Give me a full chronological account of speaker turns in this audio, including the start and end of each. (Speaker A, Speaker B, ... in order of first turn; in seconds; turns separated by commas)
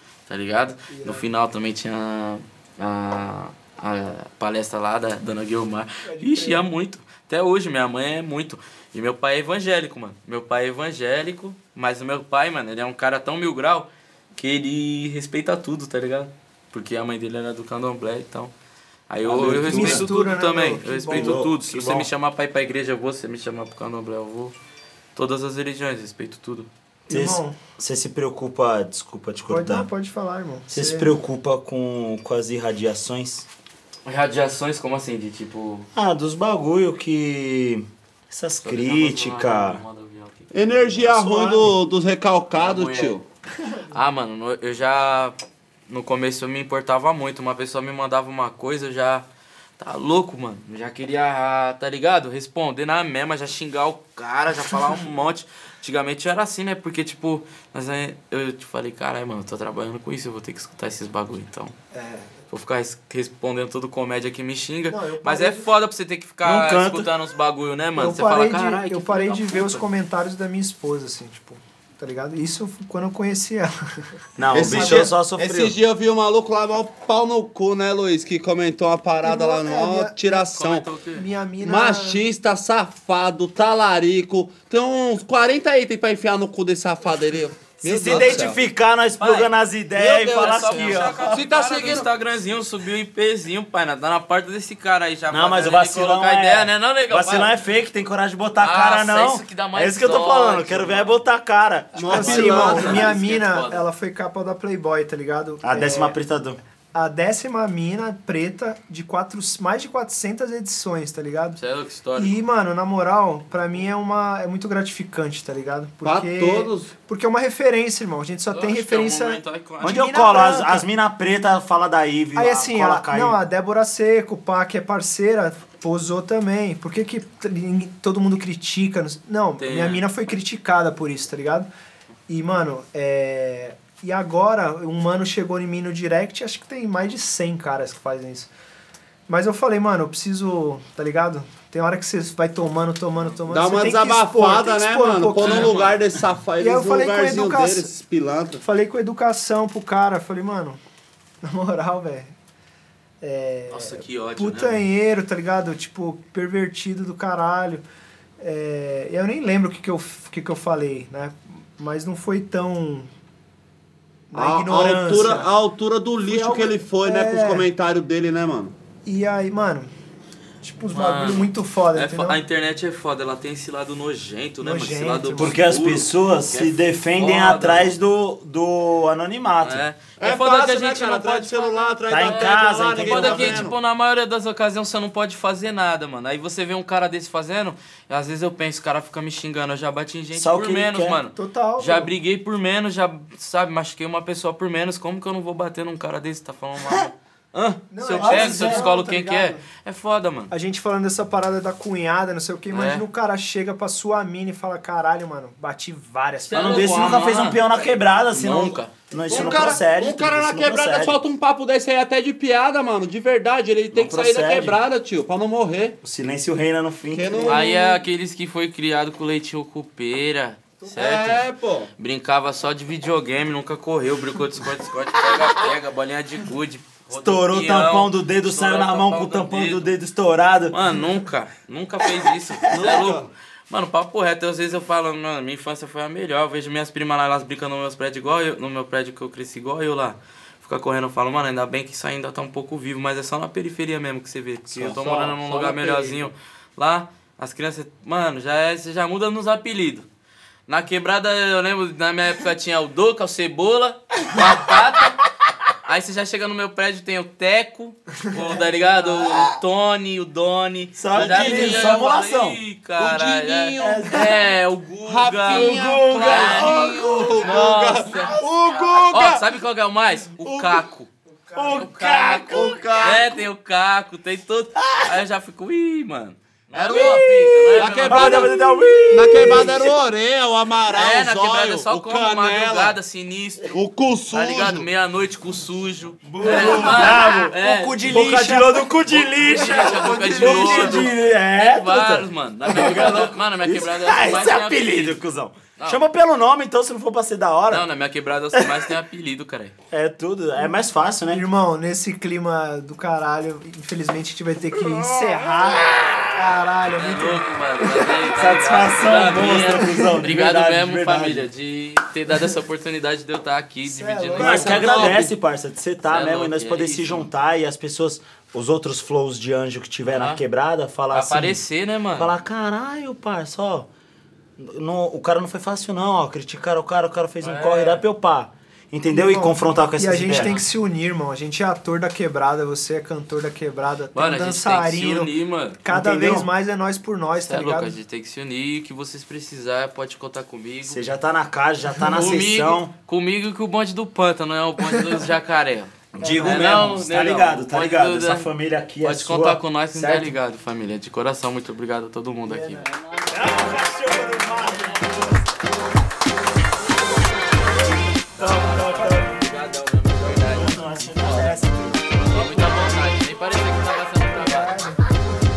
Speaker A: 0.3-18.5, Speaker B: 0.9-1.3, Speaker B: 6.0-6.7, Speaker A: 19.1-24.6, Speaker C: 19.2-20.1, Speaker B: 19.4-21.7, Speaker C: 21.1-22.1, Speaker A: 25.1-26.7, Speaker C: 27.1-29.9, Speaker B: 27.1-27.6, Speaker B: 29.5-31.1, Speaker C: 30.7-33.5, Speaker A: 34.0-35.9, Speaker C: 35.9-39.8, Speaker A: 38.6-41.2, Speaker D: 40.5-43.2, Speaker B: 41.2-41.7, Speaker A: 42.5-43.2, Speaker A: 43.9-45.4, Speaker A: 45.9-49.3, Speaker A: 49.8-61.8, Speaker B: 61.9-62.3, Speaker A: 62.5-69.9, Speaker B: 64.9-65.7, Speaker C: 66.4-67.1, Speaker B: 68.0-73.7, Speaker C: 74.4-75.8, Speaker D: 74.5-80.9, Speaker B: 74.5-75.1, Speaker B: 79.2-80.5, Speaker A: 80.5-81.3, Speaker B: 81.1-82.2, Speaker D: 81.6-88.6, Speaker C: 87.8-91.2, Speaker A: 88.0-88.6, Speaker A: 89.2-89.5, Speaker D: 90.0-92.1, Speaker A: 90.3-97.5, Speaker C: 95.3-102.7, Speaker A: 98.6-101.2, Speaker D: 102.0-103.1, Speaker A: 102.0-103.9, Speaker B: 102.1-106.2, Speaker C: 105.6-106.6, Speaker B: 106.9-111.6, Speaker A: 111.6-112.4, Speaker B: 112.2-120.9, Speaker D: 116.0-116.9, Speaker A: 118.5-120.0, Speaker C: 119.8-123.4, Speaker B: 122.4-131.7, Speaker A: 129.6-130.1, Speaker B: 132.3-138.5, Speaker B: 139.3-145.9, Speaker D: 143.5-148.6, Speaker A: 145.4-146.0, Speaker B: 146.6-147.9, Speaker B: 148.6-150.8, Speaker B: 151.4-152.3, Speaker B: 153.2-157.8, Speaker A: 153.7-154.8, Speaker B: 158.4-163.1, Speaker B: 164.3-165.5, Speaker D: 164.3-168.7, Speaker B: 166.3-167.7, Speaker B: 169.1-169.9, Speaker B: 170.6-172.4, Speaker A: 170.9-177.9, Speaker B: 174.6-175.6, Speaker C: 175.4-179.8, Speaker A: 179.6-200.5, Speaker D: 180.2-183.7, Speaker C: 182.1-183.7, Speaker C: 190.3-191.2, Speaker B: 191.4-192.1, Speaker B: 197.9-199.6, Speaker C: 198.1-198.9, Speaker B: 200.5-207.3, Speaker A: 202.7-203.1, Speaker A: 206.5-207.7, Speaker C: 206.5-211.2, Speaker A: 208.3-208.9, Speaker B: 209.2-209.8, Speaker D: 209.3-216.0, Speaker C: 213.9-214.8, Speaker C: 216.0-217.6, Speaker D: 217.1-218.0, Speaker A: 217.4-221.4, Speaker D: 220.9-221.9, Speaker A: 222.0-229.9, Speaker C: 227.1-230.9, Speaker A: 230.7-250.1, Speaker D: 232.7-233.3, Speaker C: 232.7-233.2, Speaker D: 244.7-246.3, Speaker A: 250.7-255.2, Speaker A: 255.8-268.4, Speaker C: 260.9-262.6, Speaker D: 261.1-262.1, Speaker D: 263.0-264.3, Speaker C: 263.8-264.4, Speaker D: 265.1-269.5, Speaker C: 265.5-268.2, Speaker A: 269.1-271.1, Speaker D: 270.4-270.8, Speaker B: 271.4-271.9, Speaker C: 271.6-273.2, Speaker A: 271.7-278.5, Speaker D: 272.5-273.4, Speaker C: 274.8-275.1, Speaker D: 276.7-278.6, Speaker C: 276.9-279.9, Speaker D: 279.1-282.9, Speaker B: 279.3-279.7, Speaker A: 280.9-283.8, Speaker D: 283.7-284.9, Speaker A: 284.3-295.2, Speaker C: 286.2-297.9, Speaker D: 289.5-291.1, Speaker A: 295.8-296.0, Speaker A: 297.7-299.8, Speaker C: 298.5-298.9, Speaker C: 299.9-301.5, Speaker B: 301.3-308.2, Speaker C: 305.1-306.4, Speaker A: 307.0-315.2, Speaker C: 308.3-311.5, Speaker B: 309.6-310.1, Speaker B: 313.9-315.0, Speaker C: 314.4-321.6, Speaker D: 314.4-315.3, Speaker A: 316.1-317.3, Speaker A: 320.0-320.4, Speaker A: 321.1-322.3, Speaker C: 322.1-323.9, Speaker C: 324.6-330.6, Speaker A: 327.4-328.0, Speaker B: 329.1-338.0, Speaker A: 330.4-330.6, Speaker A: 334.1-335.8, Speaker C: 335.9-336.5, Speaker A: 337.4-341.1, Speaker C: 340.9-342.9, Speaker A: 342.1-348.5, Speaker C: 346.1-350.4, Speaker B: 346.2-346.9, Speaker A: 349.0-352.9, Speaker B: 352.5-353.1, Speaker C: 353.1-355.6, Speaker B: 356.8-358.0, Speaker C: 358.2-359.5, Speaker A: 358.3-364.9, Speaker C: 360.2-362.8, Speaker B: 362.4-363.1, Speaker B: 364.3-365.1